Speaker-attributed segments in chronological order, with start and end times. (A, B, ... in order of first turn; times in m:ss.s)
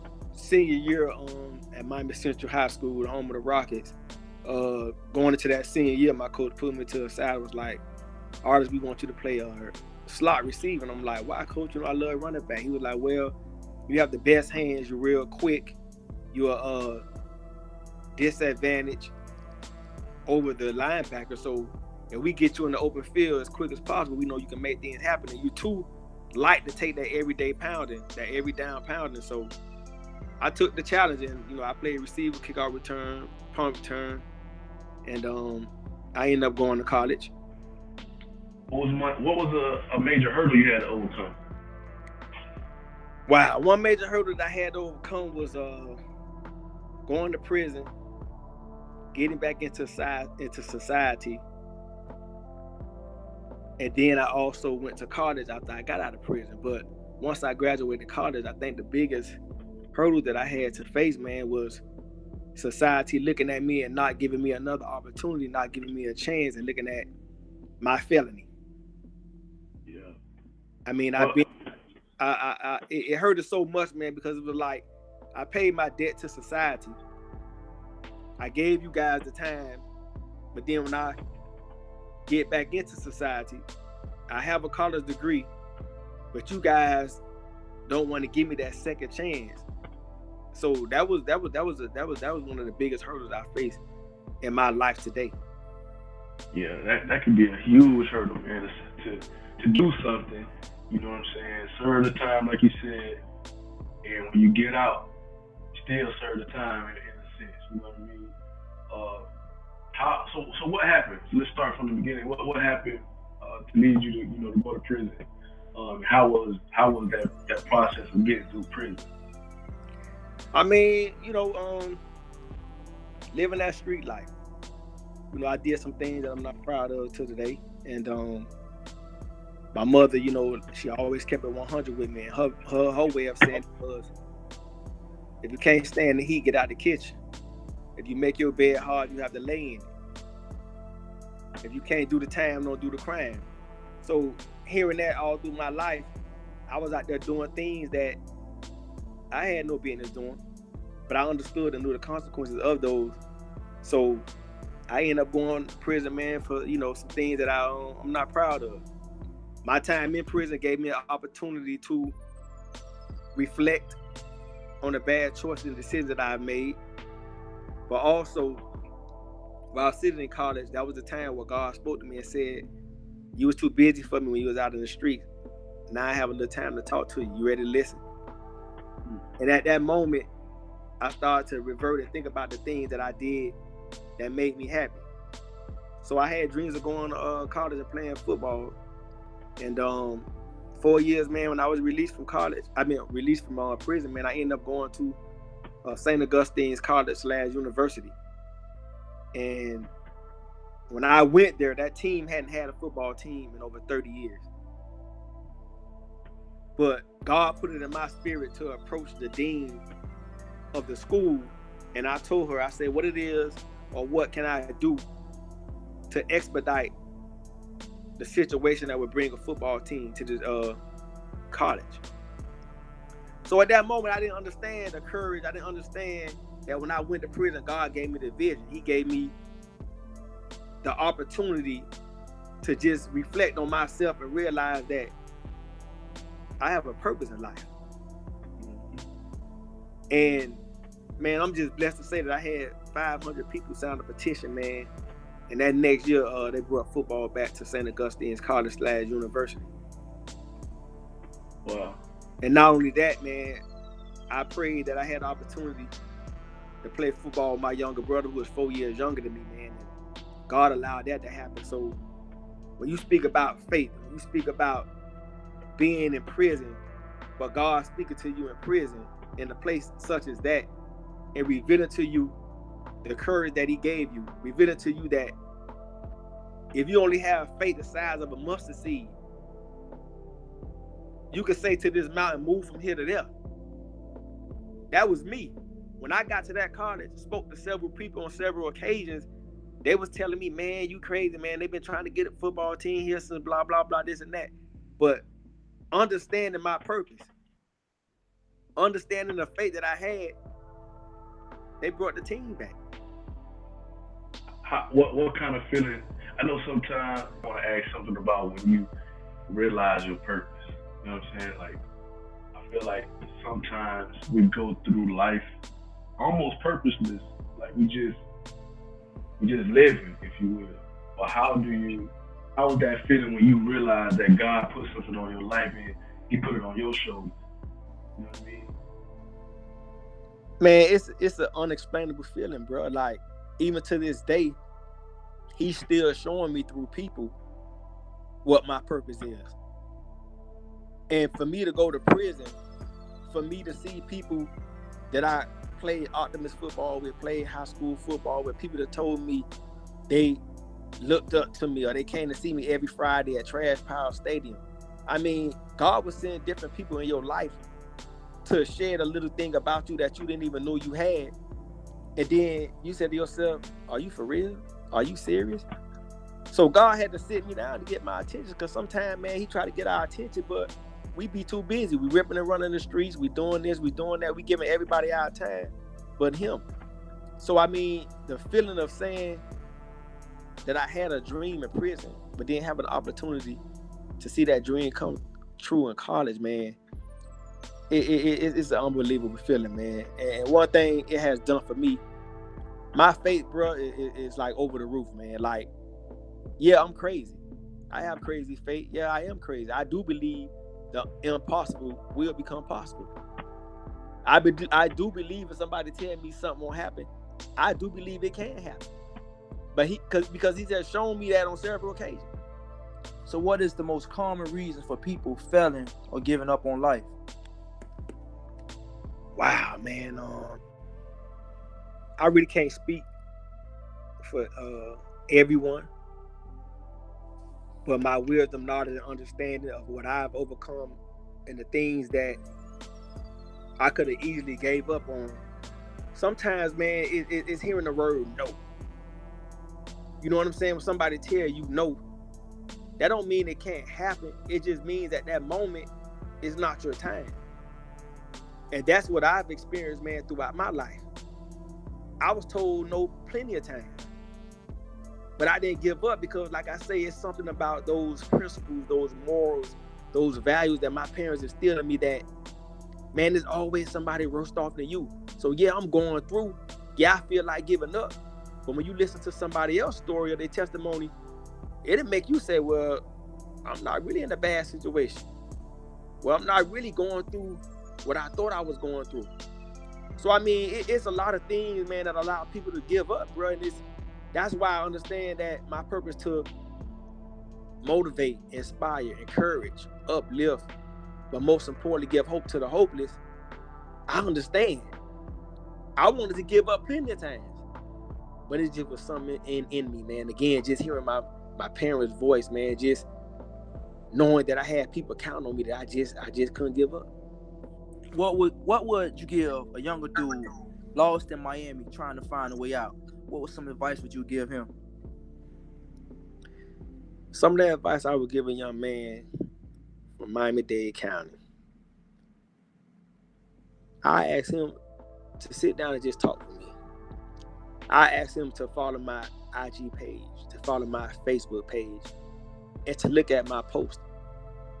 0:00.3-0:07.8 A
0:08.4-0:13.3 A
0:13.9-0:15.8 A
0:16.3-0:17.0 A
0:18.2-0:19.1 A
0:20.3-0:29.5 A
0:30.4-0:34.2 A
0:35.0-0:37.3 A
0:38.7-0:41.4 B
0:43.3-0:46.0 A
0:47.0-0:47.9 A
0:49.1-0:51.4 A
0:53.8-0:59.4 A
0:59.9-1:01.8 A
1:02.6-1:07.1 A
1:07.8-1:08.5 A
1:09.8-1:10.2 B
1:10.8-1:11.4 A
1:11.2-1:11.5 B
1:12.2-1:17.0 A
1:18.4-1:19.8 A
1:20.5-1:21.2 A
1:22.3-1:23.6 A
1:24.3-1:25.5 A
1:26.3-1:27.2 A
1:27.9-1:29.6 A
1:30.5-1:33.8 A
1:34.4-1:35.3 A
1:36.5-1:43.2 B
1:44.0-1:45.1 B
1:45.7-1:48.3 B
1:48.9-1:49.3 B
1:49.9-1:59.1 B
2:00.5-2:02.0 A
2:03.3-2:04.3 A
2:05.3-2:08.5 A
2:09.7-2:14.1 A
2:15.4-2:17.2 A
2:18.0-2:19.9 A
2:21.6-2:23.4 A
2:24.0-2:26.1 A
2:26.7-2:28.2 A
2:29.3-2:30.4 A
2:31.1-2:33.2 A
2:33.8-2:34.3 A
2:34.9-2:38.8 A
2:39.6-2:42.1 A
2:43.3-2:44.0 A
2:44.8-2:46.8 A
2:47.9-2:48.6 A
2:49.7-2:52.6 A
2:53.3-2:55.2 A
2:55.9-2:58.0 A
2:59.4-3:00.3 A
3:01.0-3:03.6 A
3:04.2-3:05.0 A
3:06.0-3:08.8 A
3:09.6-3:15.2 A
3:15.8-3:18.1 A
3:19.3-3:19.9 A
3:20.9-3:24.5 A
3:26.8-3:29.8 A
3:30.7-3:35.0 A
3:36.1-3:36.9 A
3:38.2-3:40.8 A
3:41.5-3:42.0 A
3:43.4-3:49.3 A
3:50.8-3:51.9 A
3:52.6-3:55.1 A
3:56.6-3:57.7 A
3:58.6-3:59.0 B
4:00.1-4:00.6 A
4:01.2-4:04.9 A
4:05.5-4:09.7 A
4:11.6-4:12.0 B
4:12.4-4:13.6 A
4:14.3-4:15.9 A
4:16.8-4:19.9 A
4:20.5-4:22.0 A
4:22.8-4:24.9 A
4:25.8-4:26.8 A
4:27.4-4:30.7 A
4:31.3-4:32.4 A
4:33.0-4:35.3 A
4:36.7-4:39.1 A
4:41.3-4:43.3 A
4:44.9-4:49.3 A
4:49.8-4:55.2 A
4:55.9-4:57.3 A
4:58.8-5:00.4 A
5:01.8-5:02.8 A
5:04.6-5:08.9 B
5:09.5-5:11.8 B
5:12.5-5:15.5 B
5:16.2-5:18.2 B
5:19.4-5:27.3 B
5:28.2-5:28.7 B
5:30.6-5:34.6 A
5:35.5-5:37.3 A
5:38.4-5:39.5 A
5:41.1-5:42.6 A
5:43.2-5:44.5 A
5:45.1-5:49.5 A
5:50.1-5:50.4 A
5:51.0-5:57.6 A
5:58.4-6:01.3 A
6:02.2-6:05.6 A
6:06.5-6:16.6 A
6:17.4-6:19.4 A
6:20.6-6:23.6 A
6:24.2-6:26.8 A
6:27.9-6:32.0 A
6:32.9-6:35.7 A
6:36.6-6:43.1 A
6:44.2-6:48.9 A
6:49.7-6:52.3 A
6:53.2-6:57.1 C
6:59.3-7:00.6 A
7:02.2-7:03.1 A
7:04.2-7:05.9 A
7:07.8-7:12.4 A
7:13.8-7:15.4 A
7:16.1-7:18.6 A
7:20.2-7:22.0 A
7:23.0-7:25.9 A
7:26.4-7:27.4 A
7:28.7-7:31.0 A
7:32.2-7:34.0 A
7:35.4-7:42.2 A
7:43.1-7:51.1 A
7:51.8-7:53.0 A
7:53.6-7:55.2 A
7:56.2-7:59.3 A
8:00.2-8:06.5 A
8:07.8-8:10.7 A
8:11.3-8:13.2 A
8:14.1-8:14.9 A
8:16.0-8:17.6 A
8:18.5-8:23.0 A
8:24.1-8:27.1 A
8:28.1-8:34.7 C
8:37.3-8:39.2 A
8:40.2-8:41.4 A
8:44.0-8:44.7 A
8:45.4-8:46.7 A
8:47.9-8:52.1 A
8:52.8-8:54.0 A